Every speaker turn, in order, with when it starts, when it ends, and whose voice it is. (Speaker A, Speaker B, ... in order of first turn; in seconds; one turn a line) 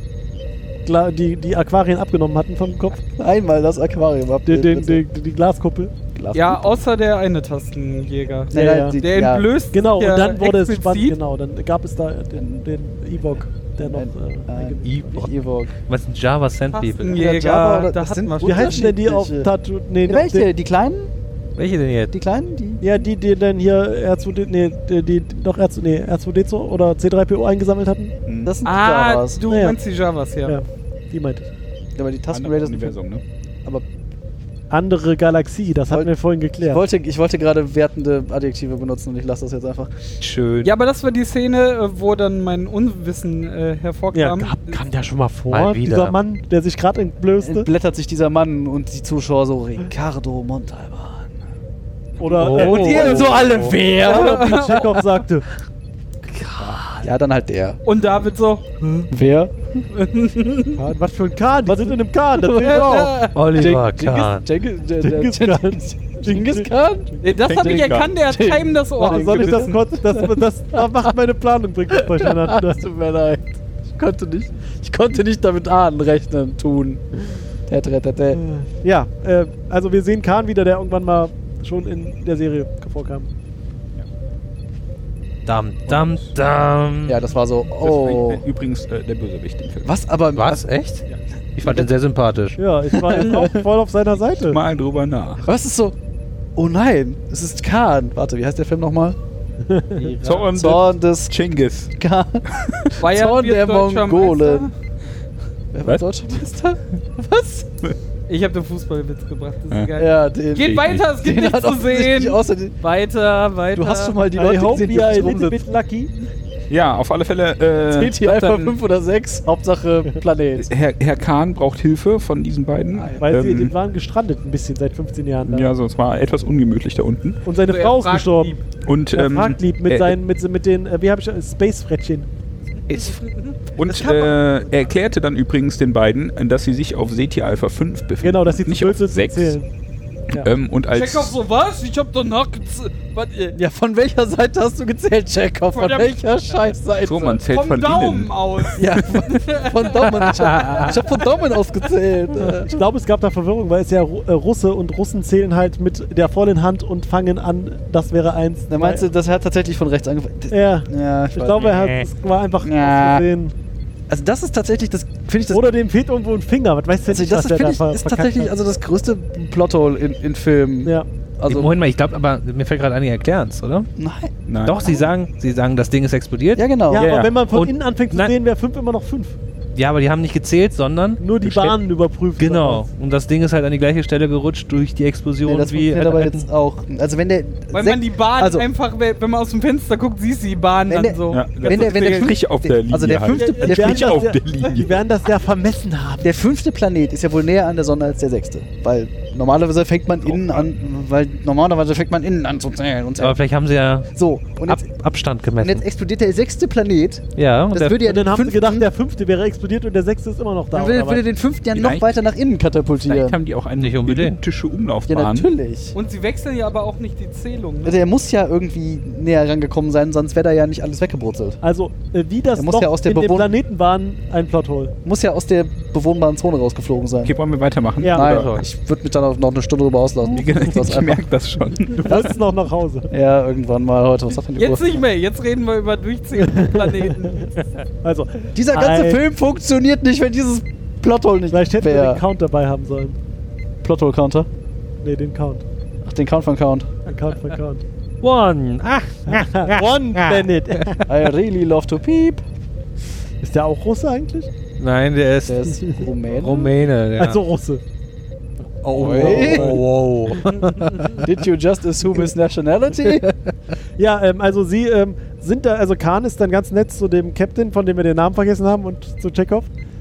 Speaker A: 0.8-3.0
Speaker B: 3.2-5.0
Speaker A: 4.5-5.9
Speaker B: 6.1-6.8
Speaker C: 6.3-11.2
Speaker B: 8.5-9.5
Speaker A: 8.5-9.0
Speaker A: 9.7-15.2
Speaker B: 12.3-12.6
Speaker B: 13.8-15.7
Speaker D: 14.8-17.2
Speaker C: 16.7-18.9
Speaker B: 17.1-19.5
Speaker A: 18.4-20.5
Speaker B: 20.0-21.1
Speaker D: 21.6-22.1
Speaker B: 22.1-23.0
Speaker A: 22.8-28.1
Speaker E: 28.2-28.5
Speaker B: 28.4-29.4
Speaker C: 28.6-30.6
Speaker A: 29.5-29.8
Speaker A: 30.5-31.5
Speaker B: 31.9-32.9
Speaker E: 32.3-33.2
Speaker A: 34.7-36.8
Speaker B: 35.9-40.0
Speaker D: 40.2-40.7
Speaker C: 40.6-44.8
Speaker A: 44.1-47.7
Speaker D: 45.5-46.2
Speaker B: 47.4-51.4
Speaker A: 52.2-55.5
Speaker D: 52.2-53.8
Speaker B: 52.5-55.0
Speaker C: 52.5-53.4
Speaker C: 54.0-54.9
Speaker D: 56.3-57.0
Speaker B: 57.0-57.8
Speaker C: 57.8-58.6
Speaker B: 59.1-59.5
Speaker C: 59.9-60.8
Speaker A: 60.8-63.2
Speaker B: 61.7-71.1
Speaker C: 62.5-63.4
Speaker D: 63.3-64.4
Speaker A: 65.0-66.7
Speaker C: 67.2-69.8
Speaker E: 67.3-68.2
Speaker A: 69.0-72.8
Speaker B: 71.9-77.0
Speaker B: 77.7-78.4
Speaker A: 78.3-83.3
Speaker D: 85.5-87.2
Speaker B: 87.1-88.4
Speaker E: 87.8-89.9
Speaker B: 89.8-90.7
Speaker D: 90.3-91.0
Speaker D: 91.5-92.6
Speaker B: 91.6-91.9
Speaker A: 92.6-94.6
Speaker B: 92.9-93.6
Speaker E: 94.3-95.4
Speaker B: 95.4-96.0
Speaker B: 96.5-99.2
Speaker A: 99.7-100.2
Speaker E: 100.2-101.9
Speaker B: 100.5-101.3
Speaker B: 102.0-102.4
Speaker E: 102.5-103.0
Speaker C: 103.0-104.7
Speaker B: 103.0-104.7
Speaker B: 105.7-107.7
Speaker C: 108.3-114.2
Speaker B: 110.0-112.7
Speaker E: 110.6-111.0
Speaker B: 113.7-115.7
Speaker A: 114.3-116.1
Speaker E: 116.7-118.7
Speaker B: 117.9-120.7
Speaker E: 120.6-123.7
Speaker B: 122.9-123.3
Speaker A: 123.2-125.7
Speaker E: 125.4-127.4
Speaker A: 127.4-128.6
Speaker C: 127.7-128.6
Speaker E: 128.8-130.2
Speaker A: 129.1-132.3
Speaker C: 132.9-133.5
Speaker E: 133.8-139.6
Speaker A: 133.9-134.3
Speaker A: 138.2-139.7
Speaker E: 140.3-141.4
Speaker C: 140.9-143.6
Speaker B: 143.5-147.4
Speaker C: 145.7-146.2
Speaker E: 147.0-148.3
Speaker C: 147.5-150.3
Speaker B: 148.7-152.8
Speaker D: 150.3-150.8
Speaker A: 152.4-159.0
Speaker B: 158.7-161.8
Speaker A: 160.5-163.5
Speaker D: 161.6-162.1
Speaker B: 162.6-163.3
Speaker B: 164.1-165.7
Speaker A: 165.5-168.5
Speaker B: 167.1-171.7
Speaker D: 171.5-173.9
Speaker B: 174.0-174.3
Speaker E: 174.5-174.9
Speaker D: 174.6-176.7
Speaker B: 176.5-177.1
Speaker A: 176.9-179.4
Speaker E: 177.0-177.3
Speaker D: 177.5-178.3
Speaker D: 179.7-181.8
Speaker A: 181.2-182.8
Speaker D: 182.4-186.4
Speaker B: 185.4-188.7
Speaker C: 187.7-192.3
Speaker B: 190.9-194.3
Speaker E: 191.3-195.0
Speaker C: 193.3-193.7
Speaker A: 193.4-196.3
Speaker B: 196.2-203.4
Speaker E: 200.3-200.7
Speaker D: 203.2-204.1
Speaker B: 204.1-204.8
Speaker D: 204.7-205.8
Speaker B: 205.6-208.9
Speaker D: 207.3-208.0
Speaker A: 208.0-211.2
Speaker B: 210.7-213.4
Speaker E: 211.7-212.1
Speaker E: 213.0-215.5
Speaker D: 213.8-214.4
Speaker B: 215.1-215.9
Speaker C: 215.9-218.0
Speaker B: 217.8-221.6
Speaker A: 221.6-224.9
Speaker B: 222.5-223.5
Speaker B: 225.0-227.3
Speaker E: 227.2-228.6
Speaker A: 228.0-228.4
Speaker B: 228.1-231.2
Speaker D: 228.2-228.6
Speaker E: 230.3-232.3
Speaker A: 231.9-233.1
Speaker B: 233.1-235.0
Speaker C: 234.6-237.7
Speaker A: 236.4-237.4
Speaker A: 238.0-239.2
Speaker B: 238.5-242.2
Speaker A: 241.5-243.2
Speaker B: 243.8-244.5
Speaker A: 245.0-245.6
Speaker B: 246.0-246.9
Speaker A: 247.1-247.8
Speaker D: 248.2-251.0
Speaker A: 249.3-251.0
Speaker B: 251.1-252.4
Speaker A: 253.4-254.5
Speaker D: 254.8-257.4
Speaker B: 255.4-256.7
Speaker A: 257.2-257.8
Speaker D: 258.8-261.1
Speaker B: 258.9-259.8
Speaker A: 258.9-260.5
Speaker B: 261.0-263.3
Speaker A: 264.0-269.7